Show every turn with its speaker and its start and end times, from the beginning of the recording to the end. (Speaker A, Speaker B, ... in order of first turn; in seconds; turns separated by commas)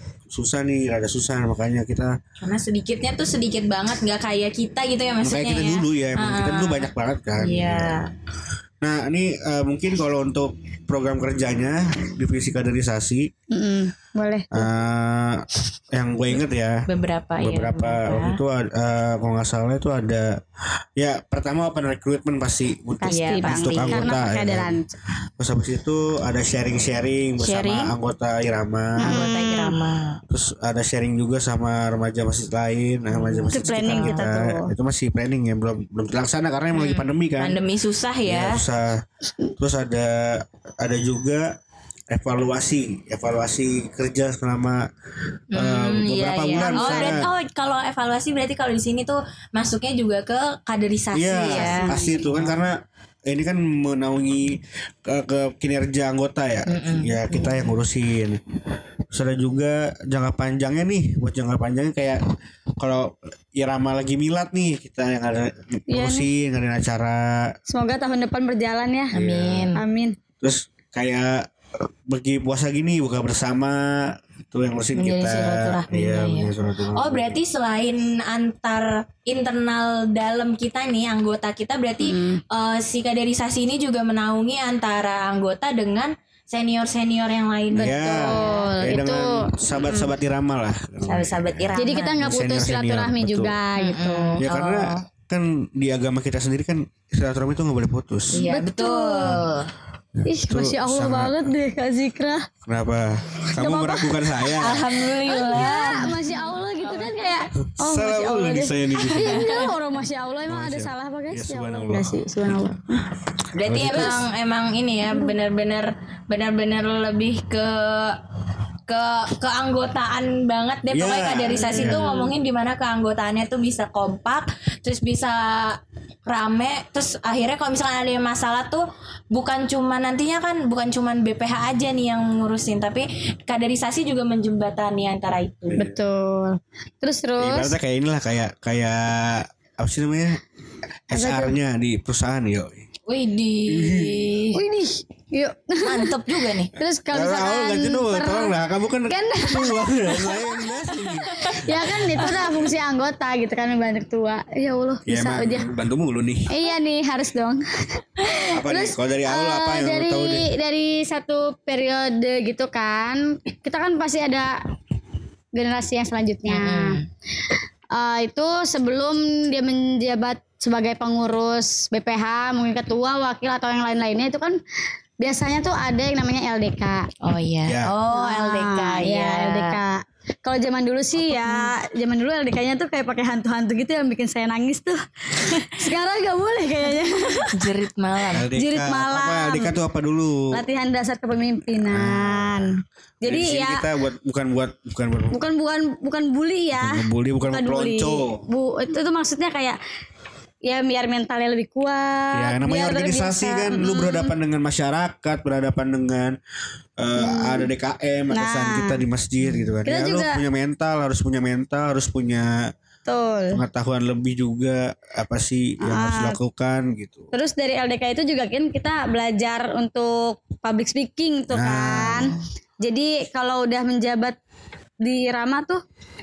Speaker A: 0.3-2.1, Speaker B: 2.4-8.1, Speaker A: 5.2-8.0, Speaker A: 8.8-13.3, Speaker C: 13.5-14.7, Speaker A: 14.5-16.8, Speaker B: 16.9-18.4, Speaker A: 17.4-20.3, Speaker A: 21.0-24.8, Speaker C: 23.0-24.9, Speaker B: 23.1-24.1, Speaker A: 25.4-29.3, Speaker B: 27.4-27.9, Speaker C: 29.0-29.8, Speaker B: 29.0-30.2, Speaker A: 30.3-37.6, Speaker B: 33.1-34.2, Speaker C: 33.5-34.7, Speaker B: 36.7-38.6, Speaker A: 38.2-39.0, Speaker A: 39.6-41.5, Speaker A: 42.1-44.9, Speaker B: 45.5-52.6, Speaker A: 45.5-47.2, Speaker C: 46.5-47.2, Speaker A: 51.1-52.8, Speaker C: 51.5-52.2, Speaker A: 53.3-58.4, Speaker B: 56.7-57.7, Speaker A: 59.1-62.2, Speaker A: 62.8-67.5, Speaker C: 65.9-66.2, Speaker C: 67.7-69.1, Speaker A: 69.1-69.7, Speaker B: 69.1-69.8, Speaker C: 69.8-70.1, Speaker A: 70.4-71.5, Speaker A: 72.1-77.4, Speaker B: 74.9-88.7, Speaker C: 82.0-82.4, Speaker A: 87.8-93.5, Speaker C: 87.8-90.1, Speaker B: 91.0-92.2, Speaker C: 91.8-94.4, Speaker B: 93.8-95.0, Speaker A: 94.4-98.4, Speaker B: 98.3-99.7, Speaker C: 98.4-99.5, Speaker A: 100.2-101.5, Speaker C: 100.2-102.5, Speaker A: 102.6-105.0, Speaker C: 103.5-104.5, Speaker B: 104.6-107.5, Speaker C: 105.3-113.0, Speaker A: 107.7-109.5, Speaker B: 109.0-109.7, Speaker A: 110.5-112.7, Speaker B: 113.5-118.2, Speaker A: 113.7-114.2, Speaker B: 118.9-135.8, Speaker A: 120.9-122.2, Speaker C: 121.6-122.0, Speaker A: 135.7-136.0, Speaker C: 135.8-137.7, Speaker A: 137.4-140.4, Speaker A: 141.1-142.9, Speaker C: 141.1-141.6, Speaker B: 143.1-144.6, Speaker A: 143.7-144.2, Speaker C: 144.5-146.2, Speaker B: 145.8-146.7, Speaker C: 146.7-148.5, Speaker A: 147.1-152.8, Speaker C: 149.1-150.7, Speaker B: 151.3-151.5, Speaker C: 151.3-155.7, Speaker A: 155.1-156.5, Speaker C: 156.5-164.6, Speaker A: 158.5-160.4, Speaker C: 165.5-167.0, Speaker B: 166.5-167.0, Speaker C: 167.9-174.6, Speaker C: 175.2-177.1, Speaker B: 177.2-179.8, Speaker A: 177.7-177.9, Speaker C: 178.1-187.6, Speaker B: 181.2-181.7, Speaker B: 187.5-188.5, Speaker A: 188.3-190.6, Speaker C: 188.6-189.7, Speaker C: 190.5-193.8, Speaker A: 191.9-195.4, Speaker C: 195.3-199.8, Speaker A: 196.7-198.4, Speaker C: 200.7-204.3, Speaker A: 202.3-206.4, Speaker A: 207.0-212.7, Speaker C: 207.2-207.7, Speaker C: 208.3-209.0, Speaker C: 209.8-210.4, Speaker C: 213.1-213.6, Speaker A: 213.5-217.3, Speaker C: 215.8-216.4, Speaker C: 217.3-224.4, Speaker A: 221.5-222.3, Speaker C: 225.0-225.8